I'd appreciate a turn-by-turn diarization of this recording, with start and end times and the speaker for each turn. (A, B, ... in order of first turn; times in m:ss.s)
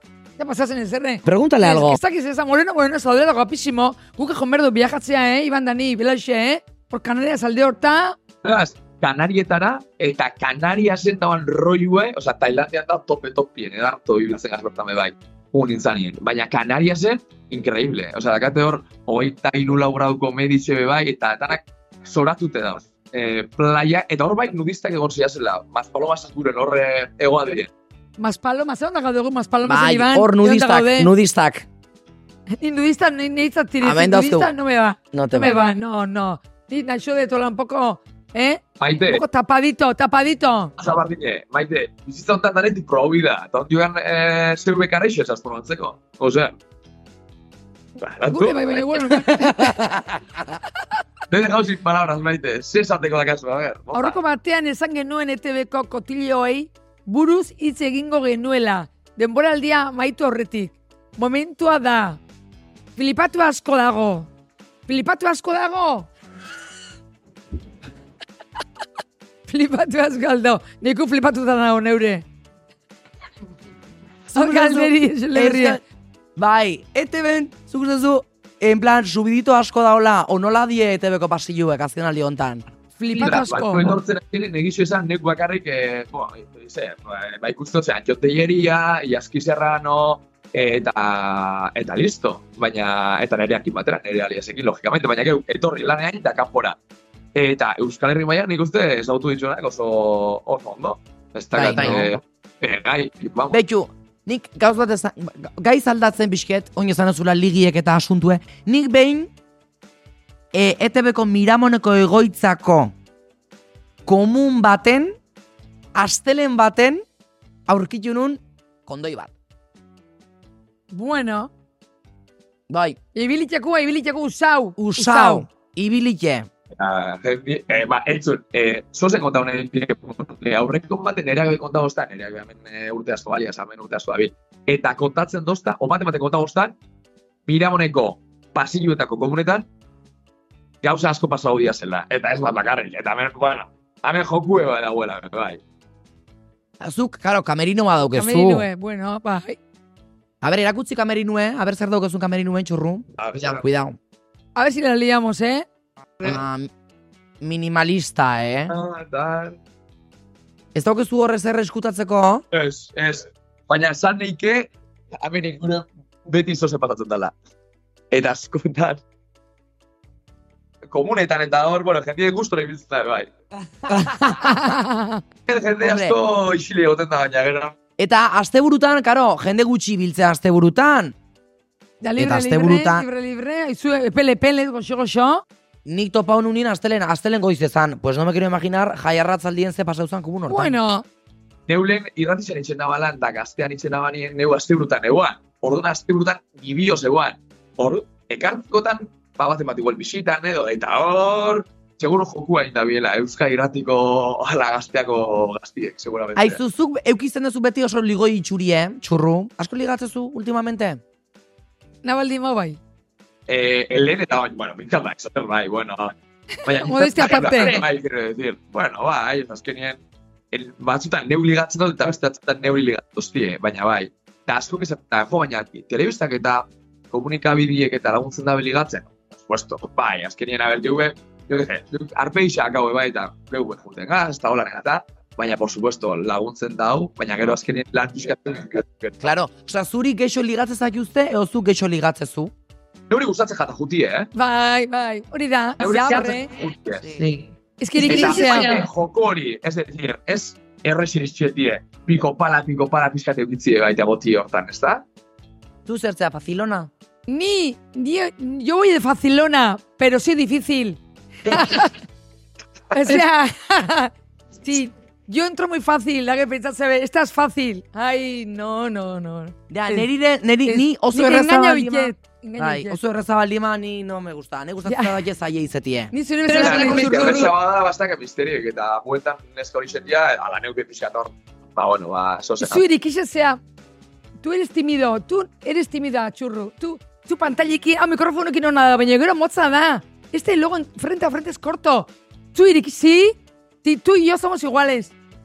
0:00.4-0:08.2 A
0:01.2-0:02.0 B
0:08.4-0:27.7 C
0:28.2-0:31.1 A
0:29.6-0:31.7 B
0:32.5-0:40.7 A
0:33.8-0:34.5 B
0:35.1-0:35.6 B
0:38.8-0:39.2 C
0:40.8-0:46.5 C
0:48.0-0:49.6 C
0:48.2-0:50.0 A
0:51.3-0:54.2 C
0:53.9-1:02.2 A
1:03.0-1:04.3 A
1:04.9-1:06.1 A
1:09.5-1:12.2 A
1:14.3-1:15.8 B
1:14.3-1:15.8 A
1:16.4-1:22.6 B
1:23.0-1:23.9 A
1:23.1-1:36.8 C
1:37.3-1:43.6 C
1:41.5-1:42.2 B
1:43.5-1:49.3 B
1:50.5-1:52.9 B
1:54.0-1:55.2 B
1:55.9-1:57.0 B
1:57.7-1:59.3 B
2:00.9-2:01.5 A
2:02.7-2:03.0 B
2:03.1-2:05.4 A
2:04.8-2:06.5 B
2:06.8-2:16.7 C
2:17.5-2:19.7 C
2:20.8-2:25.6 C
2:26.8-2:28.7 B
2:28.2-2:29.6 A
2:30.4-2:34.0 B
2:33.2-2:33.6 C
2:34.6-2:35.6 A
2:36.2-2:36.7 B
2:37.4-2:38.7 B
2:38.7-2:39.6 C
2:40.7-2:42.4 B
2:42.5-2:47.3 C
2:48.1-2:49.0 C
2:50.9-2:53.3 C
2:53.9-2:54.5 B
2:54.2-2:55.2 A
2:55.5-2:57.7 C
2:55.8-2:56.2 B
2:58.0-3:01.1 B
3:02.0-3:05.4 A
3:02.2-3:03.1 B
3:05.8-3:10.7 B
3:10.5-3:11.0 A
3:11.7-3:26.6 C
3:26.4-3:31.0 B
3:32.0-3:32.8 A
3:33.5-3:40.0 C
3:36.6-3:37.8 A
3:40.5-3:59.2 C
3:59.2-4:02.5 B
4:03.1-4:04.3 C
4:04.3-4:06.5 A
4:05.8-4:07.2 C
4:07.0-4:07.4 B
4:07.8-4:08.8 A
4:08.0-4:15.0 C
4:15.8-4:16.9 B
4:17.3-4:22.0 A
4:22.9-4:30.1 A
4:29.7-4:37.4 B
4:30.6-4:33.0 A
4:34.8-4:35.2 A
4:36.1-4:37.5 A
4:36.5-4:42.8 C
4:42.6-4:43.6 A
4:44.4-4:55.1 A